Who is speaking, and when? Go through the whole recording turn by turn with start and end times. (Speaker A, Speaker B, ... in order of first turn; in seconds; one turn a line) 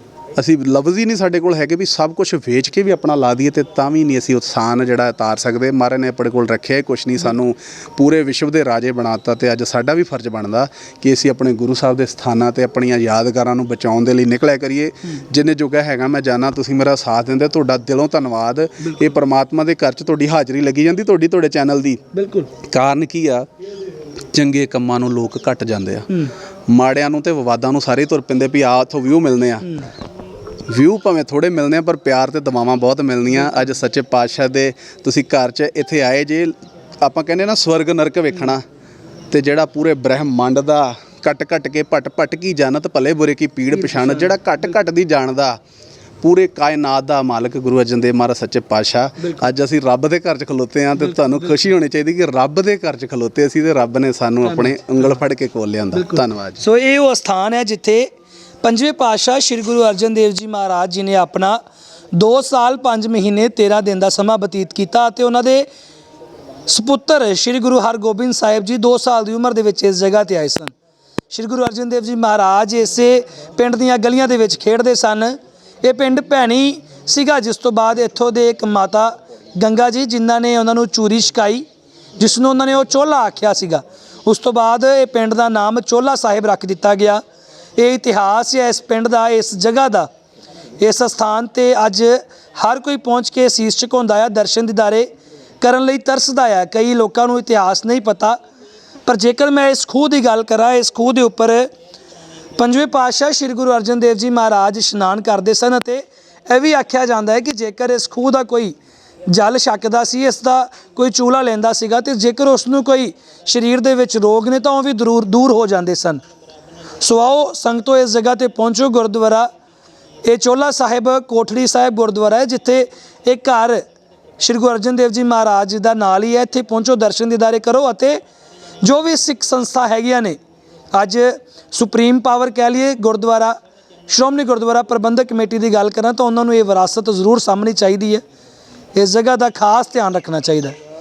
Speaker A: 0.3-22.0
Speaker B: 18.8-19.1
Speaker B: 22.1-22.5
Speaker A: 22.7-23.5
Speaker A: 24.3-26.1
Speaker A: 26.7-29.7
Speaker A: 30.7-38.6
Speaker A: 39.3-45.6
Speaker B: 43.7-44.4
Speaker A: 46.2-56.6
Speaker B: 49.2-49.5
Speaker B: 51.0-51.6
Speaker B: 54.4-55.2
Speaker B: 55.9-58.1
Speaker B: 58.6-61.6
Speaker B: 62.1-65.7
Speaker B: 66.7-70.7
Speaker B: 71.3-81.7
Speaker B: 82.2-87.2
Speaker B: 87.8-90.1
Speaker B: 90.8-95.1
Speaker B: 95.6-98.4
Speaker B: 99.0-101.7
Speaker B: 102.6-108.8
Speaker B: 109.3-116.2
Speaker B: 117.0-119.5
Speaker B: 120.2-123.9
Speaker B: 124.4-128.2
Speaker B: 128.8-130.4
Speaker B: 130.9-133.6
Speaker B: 134.1-138.2
Speaker B: 138.9-140.8